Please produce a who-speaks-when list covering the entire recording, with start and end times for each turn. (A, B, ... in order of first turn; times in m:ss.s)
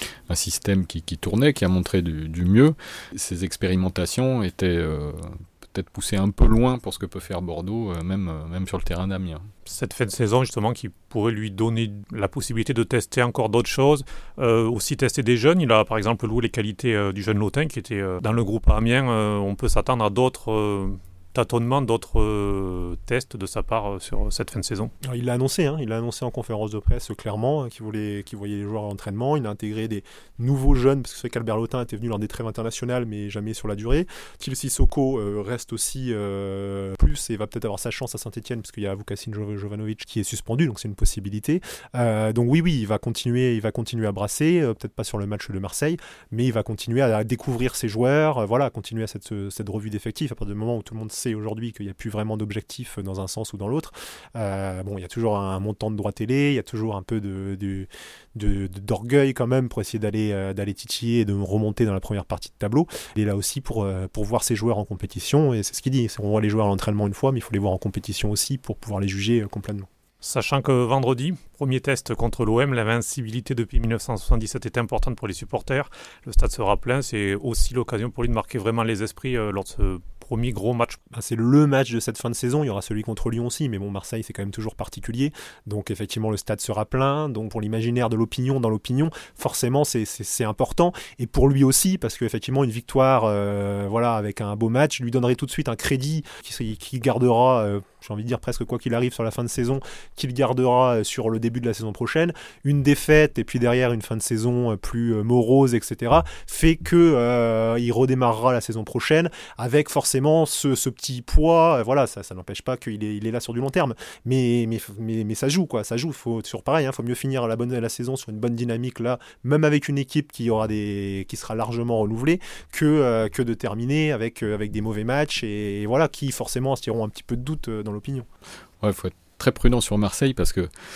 0:00.3-0:09.5 A
0:09.6-0:24.9 B
0:25.0-1:09.9 C
1:10.2-1:21.0 B
1:21.1-2:08.3 C
2:08.8-2:10.7 A